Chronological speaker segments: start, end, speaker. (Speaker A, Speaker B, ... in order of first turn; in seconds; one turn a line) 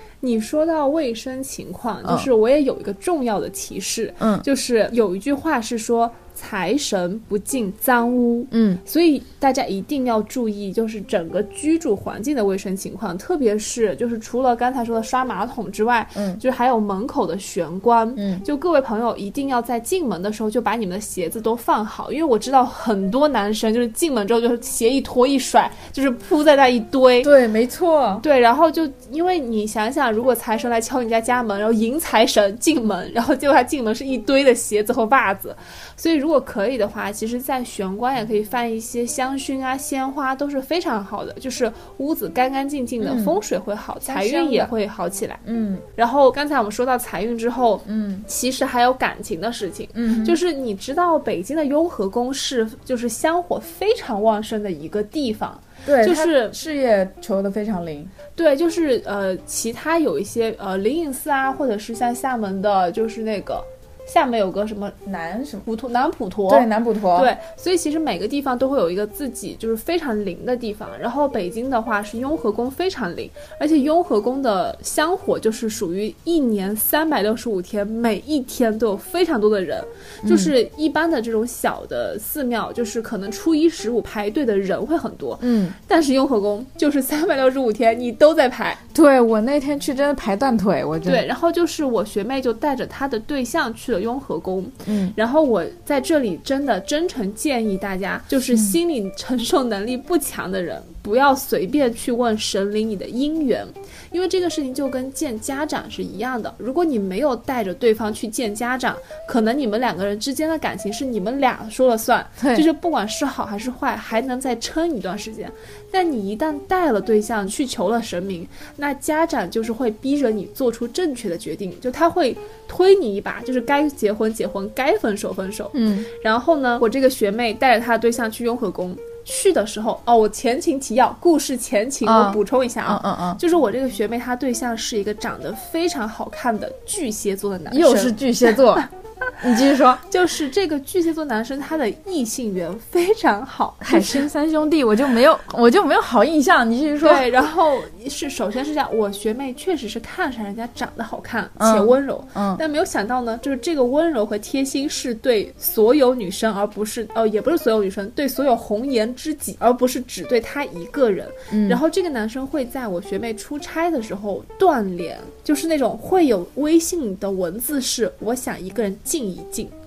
Speaker A: 0.2-27.3
Speaker B: 4.2-4.5
Speaker B: 8.5-8.8
Speaker B: 16.1-16.4
Speaker B: 18.2-18.4
Speaker B: 27.2-28.2
Speaker A: 28.2-45.4
Speaker B: 43.0-43.4
Speaker B: 44.0-44.7
Speaker B: 45.4-45.8
Speaker A: 46.0-56.6
Speaker B: 47.9-48.3
Speaker B: 49.9-50.4
Speaker B: 55.9-58.1
Speaker A: 58.4-65.0
Speaker B: 65.0-65.7
Speaker A: 65.7-88.8
Speaker B: 66.5-67.3
Speaker B: 80.2-80.5
Speaker B: 85.4-85.8
Speaker B: 88.9-91.2
Speaker A: 91.1-138.9
Speaker B: 94.9-95.2
Speaker B: 112.4-112.6
Speaker B: 125.7-126.1
Speaker B: 132.0-133.4
Speaker B: 137.7-138.9
Speaker B: 139.4-140.0
Speaker A: 140.1-144.2
Speaker B: 143.8-147.3
Speaker A: 147.0-169.7
Speaker B: 151.6-152.6
Speaker B: 161.5-161.8